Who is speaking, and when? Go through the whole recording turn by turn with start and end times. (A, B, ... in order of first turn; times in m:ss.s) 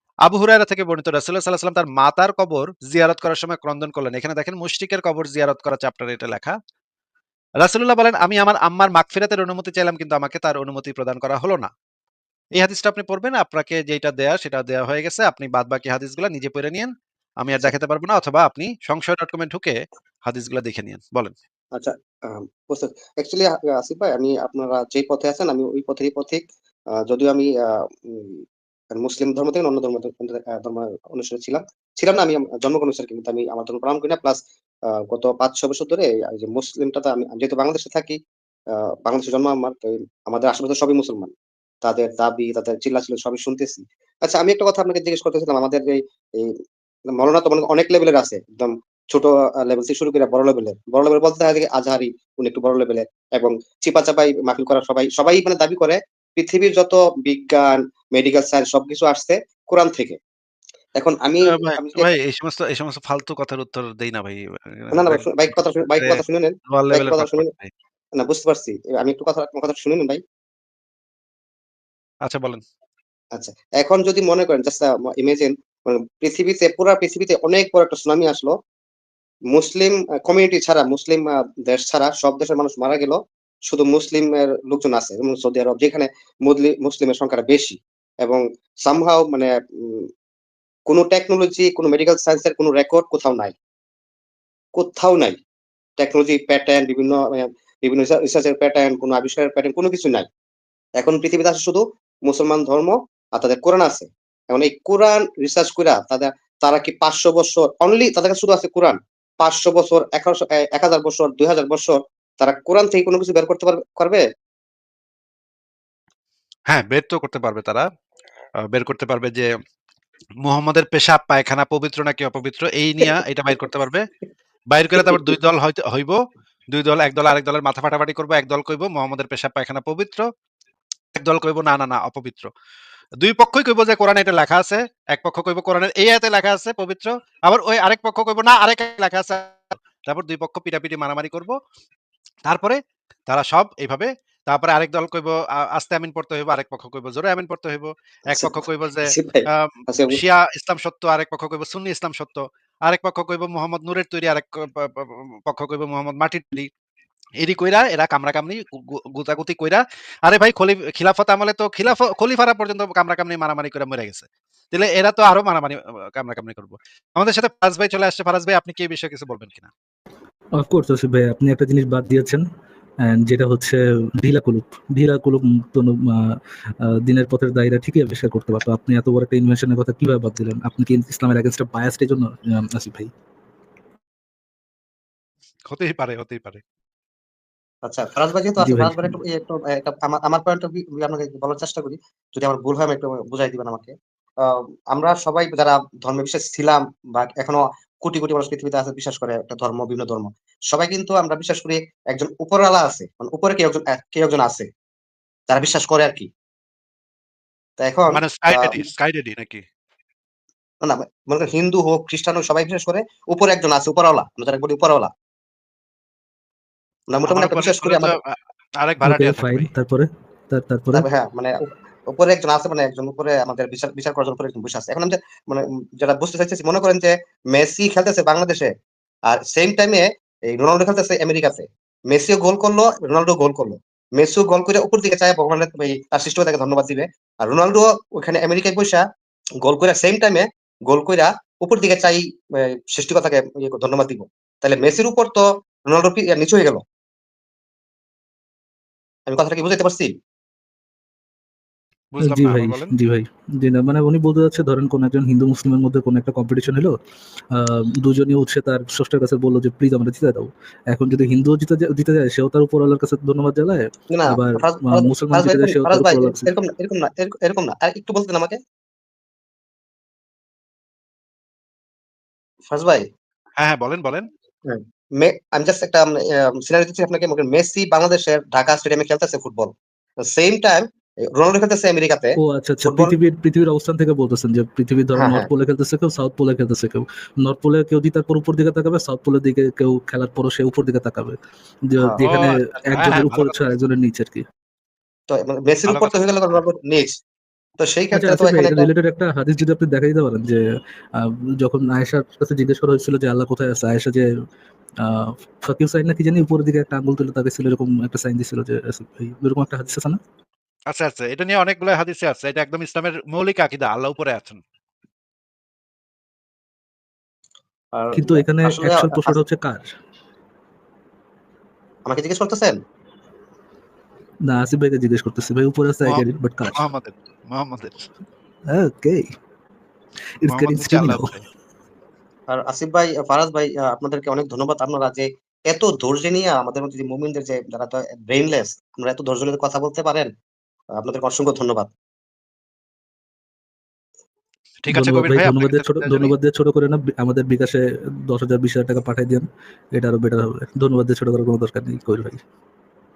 0:00.2-0:06.6 A
0:07.6-0:11.7 A
0:12.6-0:21.3 A
0:21.7-0:28.4 B
0:28.9-0:38.2 B
0:38.7-0:41.3 B
0:41.8-0:46.5 B
0:47.1-1:00.2 B
1:01.0-1:02.1 B
1:01.4-1:07.7 A
1:04.9-1:07.5 B
1:08.2-1:10.2 B
1:12.2-1:12.6 A
1:13.3-1:18.6 B
1:19.5-1:30.1 B
1:30.9-1:33.5 B
1:34.7-1:35.4 B
1:36.0-1:40.3 B
1:41.0-1:54.2 B
1:56.7-1:57.9 A
1:58.7-1:59.5 A
2:00.4-2:04.0 A
2:04.7-2:10.3 A
2:05.0-2:05.3 B
2:11.1-2:12.5 A
2:13.2-2:21.6 A
2:22.5-2:36.7 A
2:28.3-2:30.2 B
2:37.4-2:49.7 A
2:50.6-2:52.4 C
2:53.0-3:03.1 C
3:05.7-3:06.6 A
3:07.8-3:24.7 B
3:08.6-3:09.2 C
3:25.5-3:26.3 B
3:27.8-3:28.8 B
3:28.1-3:29.6 A
3:30.8-3:35.1 B
3:37.1-3:38.2 B
3:37.2-3:39.7 A
3:39.0-3:41.0 C
3:40.9-3:48.7 B
3:49.3-3:59.0 B
3:59.6-4:06.8 B
4:09.3-4:10.1 B
4:12.1-4:12.9 A
4:12.2-4:17.0 C
4:17.5-4:26.5 C
4:24.1-4:28.6 B
4:32.7-4:33.1 B
4:33.6-4:34.3 A
4:34.6-4:39.7 B
4:40.2-4:43.1 B
4:42.4-4:54.4 C
4:45.2-4:45.5 B
4:52.0-4:52.2 B
4:52.2-4:53.7 A
4:55.3-4:57.2 B
4:55.8-4:56.6 A
4:57.8-4:58.9 B
4:58.1-5:00.6 C
5:01.2-5:04.3 C
5:05.0-5:10.2 C
5:10.9-5:14.6 A
5:17.9-5:19.4 B
5:18.1-5:19.9 C
5:22.0-5:22.8 B
5:24.4-5:26.9 C
5:26.0-5:28.1 A
5:28.7-5:29.3 C
5:30.4-5:31.3 C
5:30.5-5:31.4 A
5:32.5-5:40.3 B
5:40.9-5:41.9 B
5:44.8-5:46.3 A
5:44.9-5:52.4 C